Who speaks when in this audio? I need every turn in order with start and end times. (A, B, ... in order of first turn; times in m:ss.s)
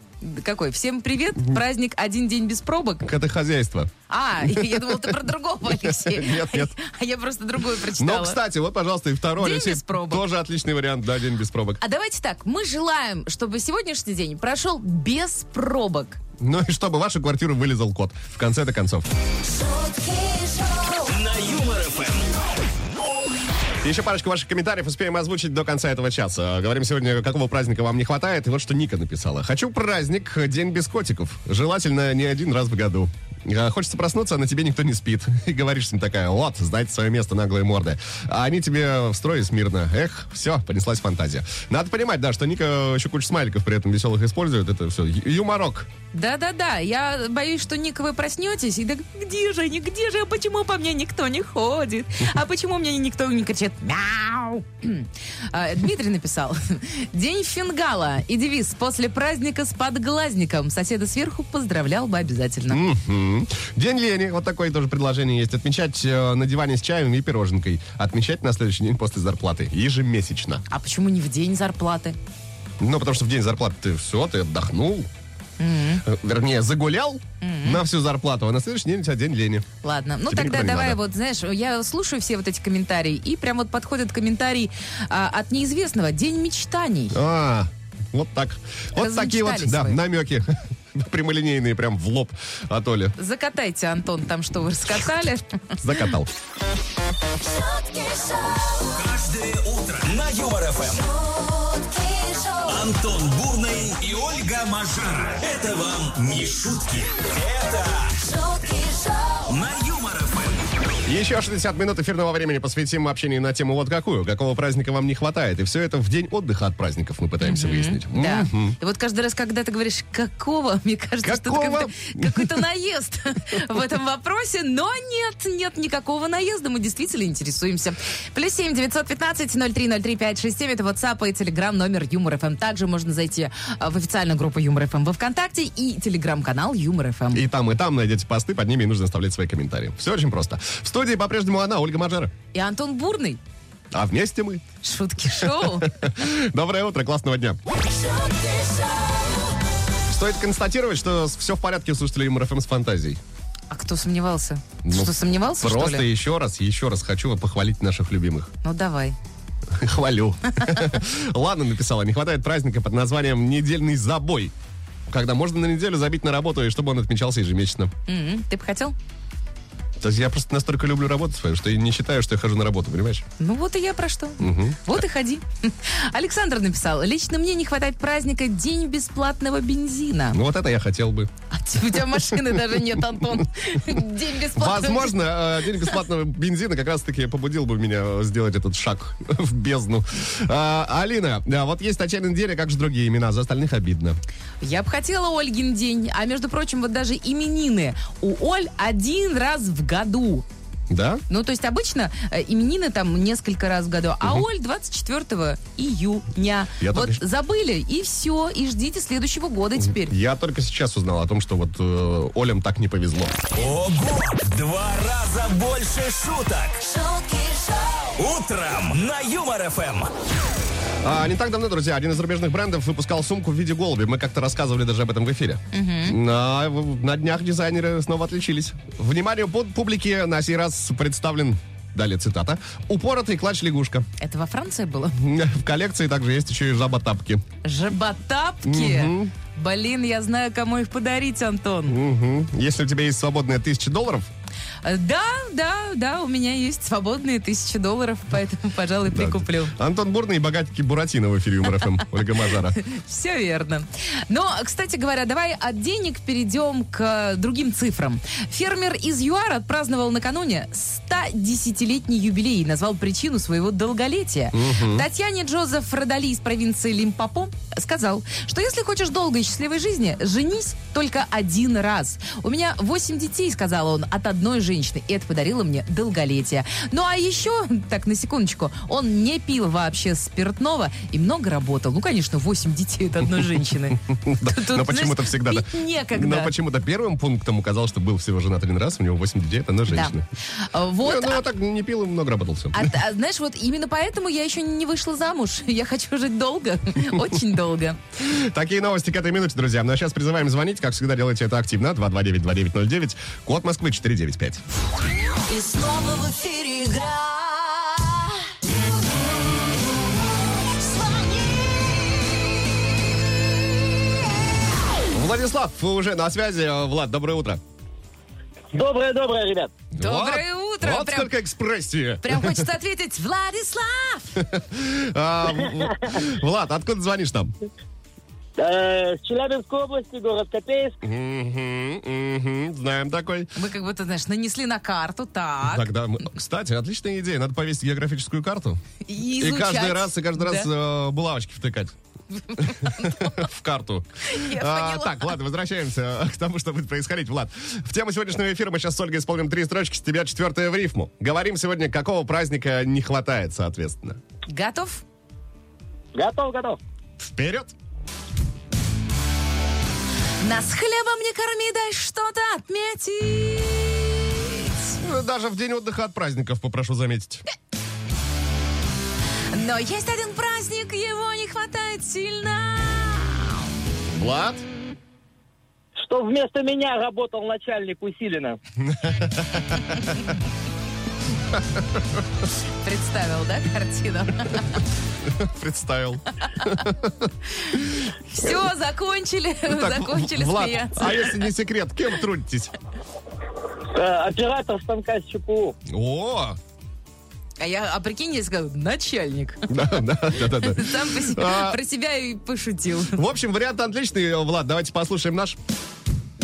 0:00.2-0:03.1 A
0:03.0-0:06.7 B
0:04.1-0:08.4 A
0:07.8-0:11.8 B
0:09.4-0:10.2 A
0:11.8-0:16.2 A
0:16.4-0:19.1 B
0:20.9-0:22.3 C
0:23.8-0:45.9 B
0:46.1-1:02.8 A
1:02.7-1:10.6 B
1:10.7-1:12.2 A
1:12.8-1:15.1 B
1:15.6-1:16.0 A
1:16.0-1:19.6 B
1:17.4-1:17.8 A
1:19.8-1:27.2 A
1:20.2-1:21.0 B
1:27.1-1:33.2 B
1:28.9-1:30.0 A
1:33.2-1:36.0 A
1:35.8-1:36.3 B
1:38.7-1:41.1 C
1:42.6-1:48.5 C
1:49.3-1:50.7 C
1:51.0-1:58.8 B
1:57.4-2:17.4 A
2:01.2-2:02.6 B
2:17.3-2:22.3 B
2:22.5-2:23.4 A
2:23.9-2:24.6 B
2:24.8-2:26.1 A
2:25.6-2:27.6 B
2:30.1-2:33.2 B
2:33.7-2:36.0 A
2:34.8-2:38.5 B
2:38.6-2:39.2 A
2:39.7-2:44.5 B
2:45.1-2:47.9 B
2:48.1-2:48.9 A
2:50.0-2:53.2 B
2:53.4-3:00.4 A
2:54.4-2:54.9 B
3:00.3-3:01.3 B
3:01.5-3:06.0 A
3:02.1-3:03.4 B
3:04.6-3:14.2 B
3:14.6-3:20.4 A
3:20.9-3:21.2 B
3:21.3-3:30.1 A
3:26.8-3:27.2 B
3:29.8-3:33.4 B
3:33.5-3:36.9 C
3:38.2-3:40.1 C
3:41.0-3:54.1 B
3:45.7-3:46.2 A
3:54.2-3:55.2 A
3:55.1-3:57.4 B
3:57.6-4:02.0 A
3:58.6-3:59.3 B
4:01.9-4:04.3 B
4:04.8-4:09.8 A
4:09.1-4:12.8 B
4:12.8-4:46.5 A
4:24.5-4:25.1 B
4:44.0-4:50.2 B
4:49.9-4:51.4 A
4:51.0-4:52.9 B
4:52.7-4:58.0 A
4:58.2-5:04.6 B
5:05.5-5:08.0 D
5:11.1-5:11.6 D
5:15.1-5:17.6 B
5:18.7-5:19.7 E
5:19.9-5:22.7 B
5:20.0-5:21.3 A
5:22.2-5:24.4 A
5:24.4-5:27.5 B
5:28.6-5:31.0 E
5:31.0-5:33.5 B
5:33.5-5:35.9 A
5:35.6-5:38.8 B
5:39.0-5:40.7 A
5:39.4-5:41.9 B
5:42.3-5:43.4 A
5:42.6-5:54.2 B
5:44.2-5:45.3 A
5:54.5-5:55.0 A
5:56.1-5:56.8 E
5:57.2-5:57.7 B
6:00.4-6:05.0 A
6:05.0-6:07.4 B
6:09.5-6:13.6 A
6:14.1-6:14.6 B
6:16.0-6:18.6 E
6:18.8-6:20.2 B
6:21.5-6:22.0 B
6:22.8-6:24.8 A
6:25.2-6:27.3 B
6:26.4-6:26.8 A
6:27.6-6:31.3 A
6:29.6-6:32.7 B
6:33.9-6:35.8 E
6:35.9-6:36.6 B
6:37.6-6:43.2 A
6:39.7-6:41.8 B
6:43.1-6:45.6 B